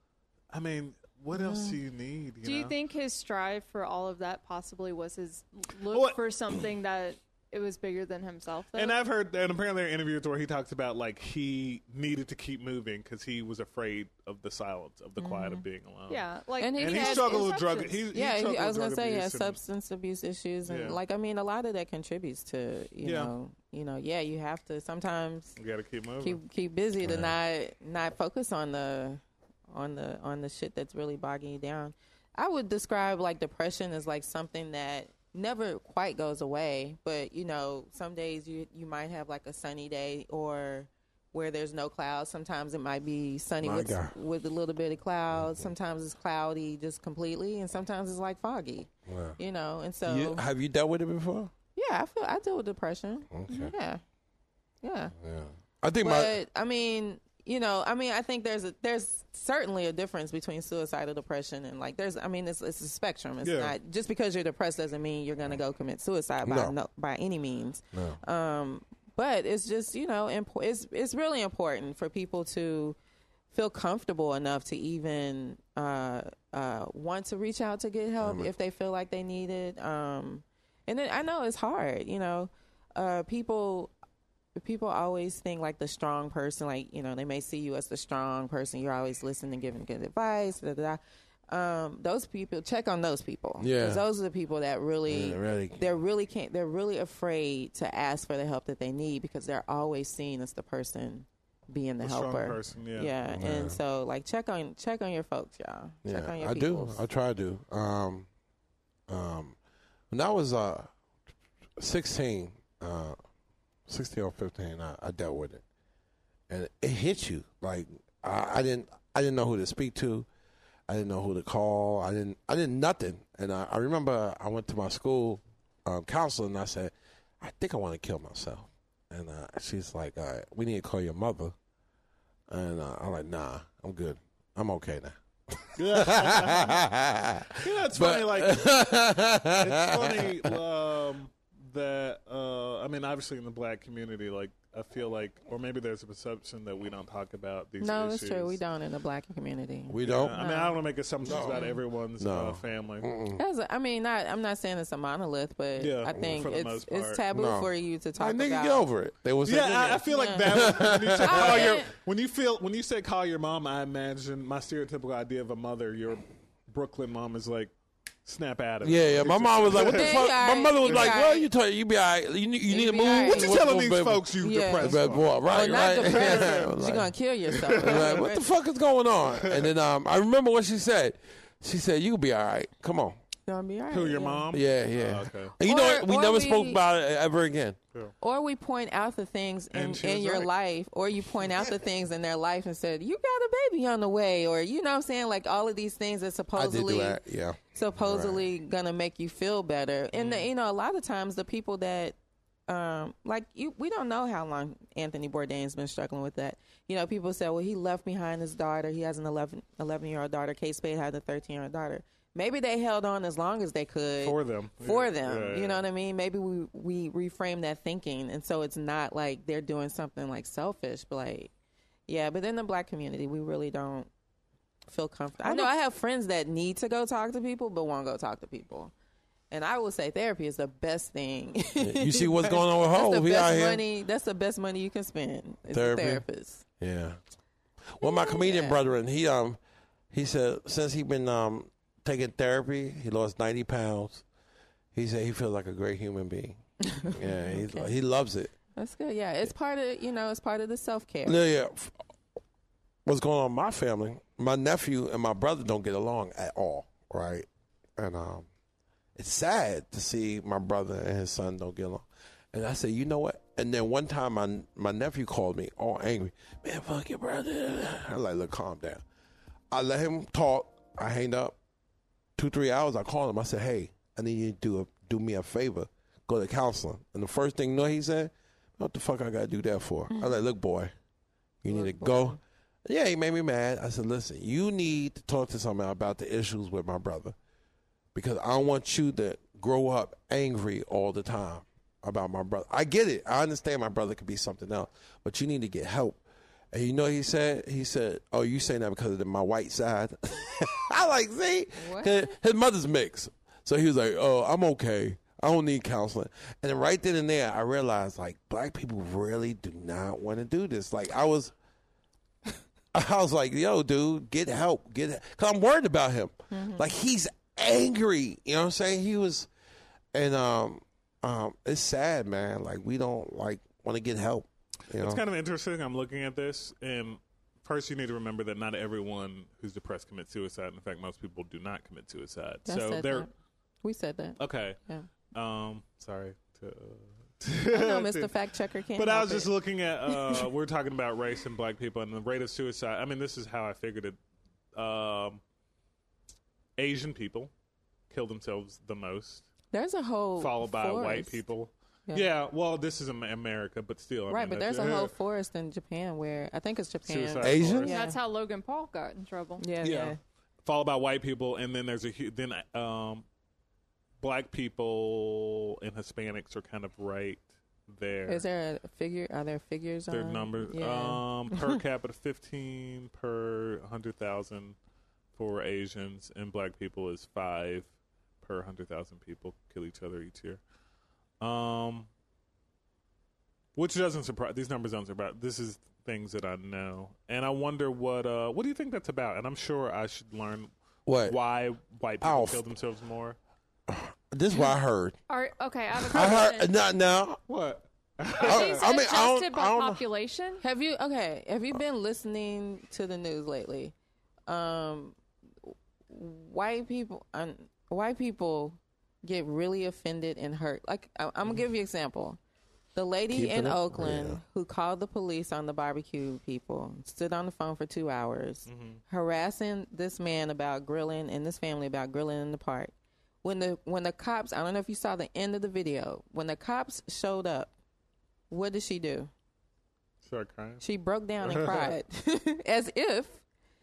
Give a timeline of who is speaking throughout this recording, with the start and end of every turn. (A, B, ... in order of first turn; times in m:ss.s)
0:00.5-0:02.8 A
0:01.3-0:01.8 B
0:02.4-0:09.0 C
0:05.9-0:06.2 A
0:08.8-0:16.3 A
0:15.2-0:15.6 B
0:16.1-0:18.1 C
0:16.6-0:17.5 B
0:16.8-0:19.6 A
0:18.1-0:25.6 B
0:20.7-0:21.0 A
0:23.0-0:23.3 A
0:25.6-0:26.4 A
0:26.2-0:50.5 B
0:27.0-0:27.4 D
0:43.6-0:44.2 D
0:45.3-0:45.6 D
0:49.1-0:49.4 D
0:50.0-0:51.5 D
0:51.8-0:54.0 B
0:53.3-0:53.7 D
0:54.8-0:55.1 B
0:55.2-0:56.4 D
0:56.0-1:13.0 B
1:03.4-1:03.8 A
1:06.4-1:06.8 D
1:07.9-1:08.2 D
1:13.5-1:23.9 B
1:18.2-1:18.5 D
1:24.6-1:47.0 B
1:33.6-1:34.0 D
1:35.1-1:35.8 D
1:42.0-1:43.1 A
1:43.3-1:43.8 D
1:46.0-1:48.3 D
1:49.1-1:49.6 D
1:50.1-1:50.9 D
1:51.8-1:53.2 D
1:53.9-1:55.6 D
1:56.5-2:00.3 D
2:00.9-2:11.5 D
2:12.5-2:20.6 D
2:15.8-2:16.8 A
2:17.6-2:28.6 A
2:27.8-2:31.8 B
2:29.9-2:30.4 D
2:30.0-2:33.1 A
2:31.2-2:31.7 D
2:32.2-2:33.4 D
2:33.4-2:38.8 B
2:35.8-2:37.2 A
2:36.1-2:36.5 D
2:37.3-2:41.8 D
2:39.4-2:47.7 A
2:40.1-2:41.9 B
2:48.2-2:50.3 A
2:48.8-2:57.1 D
2:49.8-2:51.5 B
2:50.9-2:51.1 A
2:52.7-2:53.6 B
2:53.2-2:56.6 A
2:54.4-2:58.4 B
2:57.5-2:58.2 A
2:57.8-3:03.2 D
2:59.4-2:59.7 A
3:03.5-3:04.5 B
3:03.9-3:05.6 A
3:04.5-3:07.8 D
3:05.6-3:06.8 B
3:08.2-3:17.2 B
3:09.7-3:10.5 A
3:16.6-3:18.4 D
3:17.7-3:22.2 B
3:20.1-3:20.5 A
3:22.7-3:41.5 B
3:34.2-3:35.8 A
3:42.1-3:44.1 B
3:44.9-3:48.9 B
3:49.5-3:56.6 B
3:51.8-3:53.8 D
3:55.7-3:56.2 D
3:56.8-3:57.2 D
3:57.9-3:59.6 D
3:58.0-3:58.8 B
4:00.1-4:04.2 D
4:04.9-4:08.5 D
4:06.9-4:07.9 B
4:08.8-4:11.4 B
4:11.2-4:12.0 D
4:13.0-4:18.5 D
4:19.2-4:29.0 D
4:29.7-4:31.6 D
4:32.4-4:40.9 D
4:41.6-4:47.4 D
4:41.7-4:42.4 B
4:48.1-5:11.5 D
5:01.8-5:02.4 B
5:12.9-5:19.5 D
5:16.5-5:16.9 B
5:20.1-5:25.2 D
5:24.9-5:33.3 A
5:32.7-5:33.3 B
5:33.8-5:35.1 B
5:34.4-5:34.8 A
5:35.3-5:38.4 A
5:37.7-5:39.5 B
5:39.0-5:44.2 A
5:40.1-5:40.5 B
5:44.7-5:45.4 A
5:46.8-5:47.5 A
5:48.1-5:49.5 A
5:49.7-5:51.4 B
5:50.4-5:55.1 A
5:54.3-5:58.2 B
5:57.0-5:58.0 A
5:57.4-5:57.9 D
5:57.9-5:59.6 C
5:59.6-6:00.2 B
5:59.8-6:03.2 A
6:04.2-6:08.4 A
6:08.3-6:11.8 B
6:10.1-6:14.8 A
6:15.4-6:17.9 A
6:18.4-6:20.6 A
6:21.4-6:22.1 A
6:23.8-6:30.7 A
6:31.1-6:31.4 D
6:31.2-6:33.4 A
6:32.2-6:32.6 D
6:33.9-6:35.2 D
6:35.3-6:36.7 C
6:36.0-6:37.4 D
6:37.5-6:38.8 A
6:38.4-6:40.6 C
6:38.4-6:40.0 D
6:40.6-6:43.9 B
6:44.5-6:45.2 B
6:45.7-6:52.4 B
6:53.0-7:07.7 B
6:53.3-6:54.4 D
6:58.7-6:59.0 A
7:08.5-7:09.3 B
7:10.2-7:10.8 A
7:10.8-7:13.4 B
7:11.4-7:11.9 A